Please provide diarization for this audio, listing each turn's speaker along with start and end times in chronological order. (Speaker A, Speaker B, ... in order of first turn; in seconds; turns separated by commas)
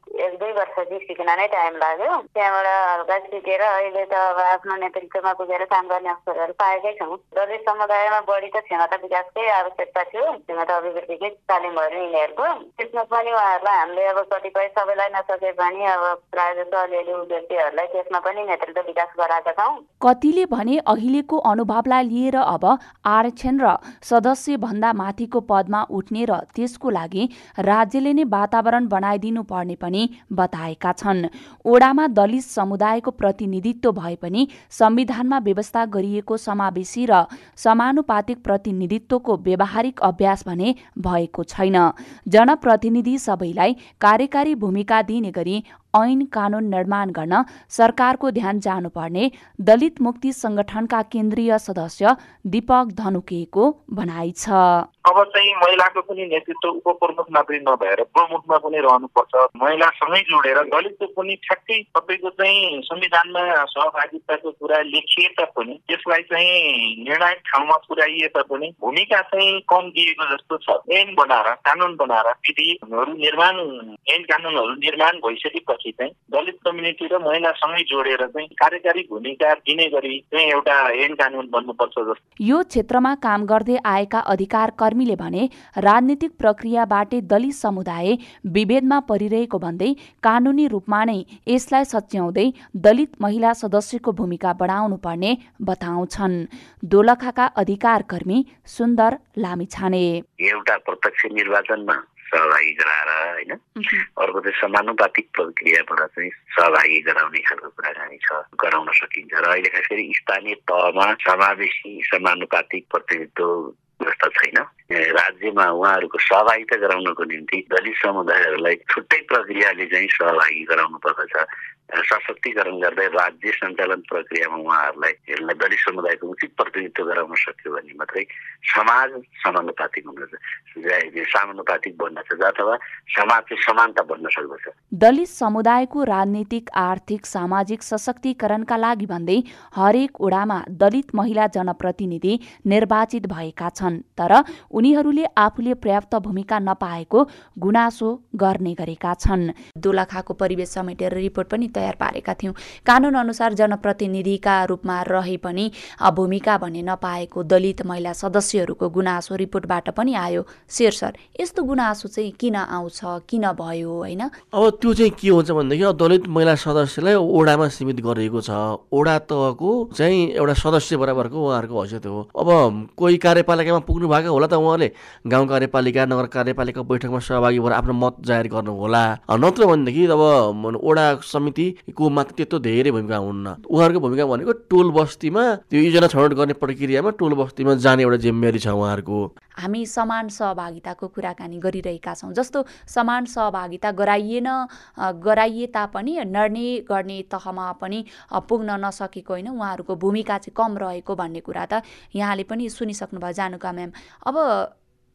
Speaker A: 0.2-19.8, Speaker B: 20.0-54.9, Speaker C: 55.0-82.2, Speaker B: 82.5-100.2, Speaker D: 100.4-103.7, Speaker D: 104.2-134.7, Speaker B: 135.0-164.3, Speaker E: 164.5-189.2, Speaker B: 189.6-204.7